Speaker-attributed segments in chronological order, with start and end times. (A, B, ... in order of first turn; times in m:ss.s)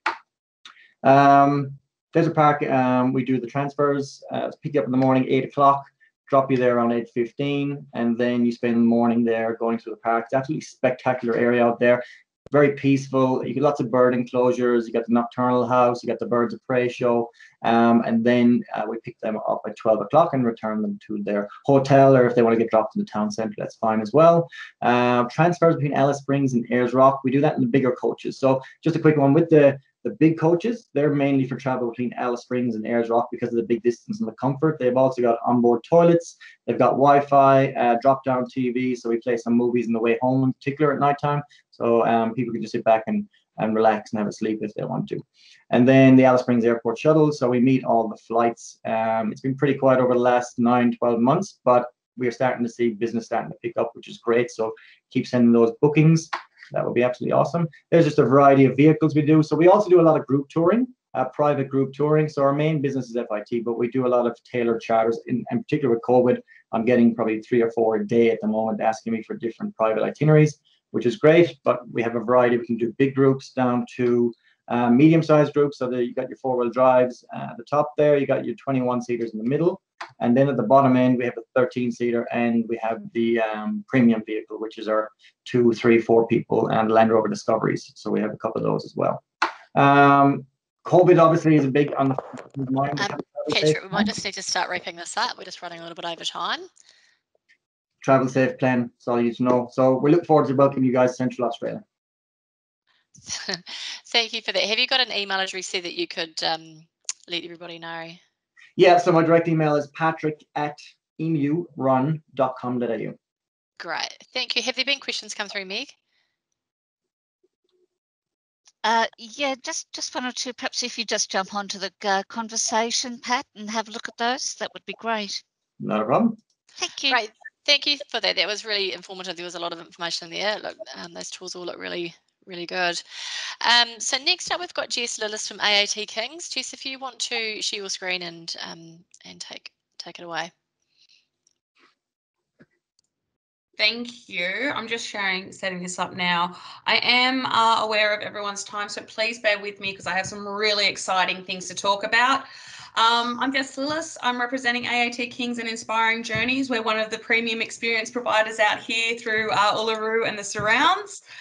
0:01.0-1:29.2 A
1:29.7-1:34.1 A
1:33.0-1:36.7 B
1:38.0-1:41.8 A
1:43.3-1:48.2 B
1:48.8-1:53.2 A
1:53.8-1:55.9 B
1:58.8-2:05.4 C
2:05.8-2:06.4 A
2:06.8-2:07.2 C
2:07.1-2:13.0 B
2:13.6-2:20.5 B
2:23.8-2:41.2 D